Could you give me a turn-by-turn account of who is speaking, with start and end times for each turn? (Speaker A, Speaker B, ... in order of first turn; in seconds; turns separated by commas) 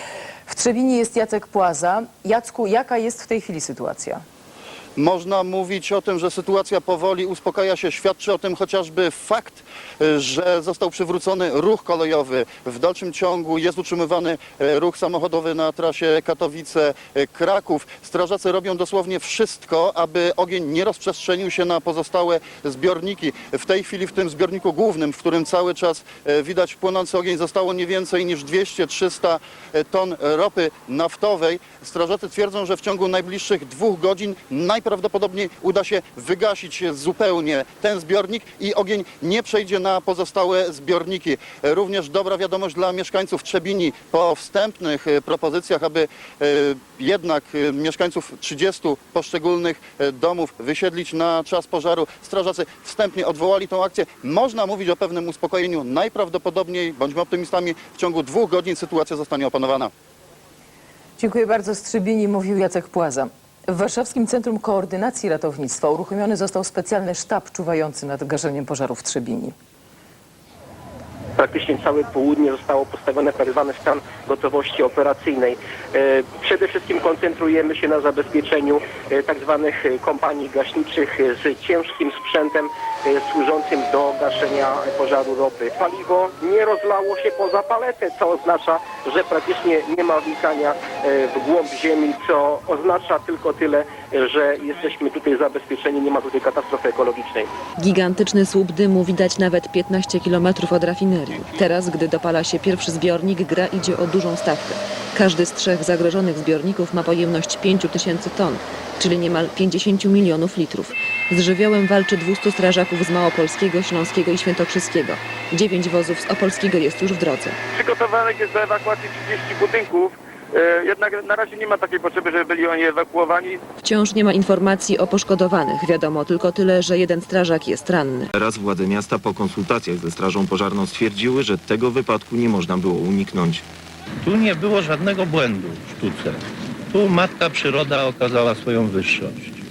Speaker A: 0.5-4.2, Speaker B: 5.0-59.9, Speaker A: 61.2-69.5, Speaker C: 71.4-97.5, Speaker D: 97.8-117.5, Speaker E: 117.7-123.6, Speaker D: 123.8-128.3, Speaker F: 128.4-133.7, Speaker G: 134.2-136.4, Speaker G: 136.9-139.4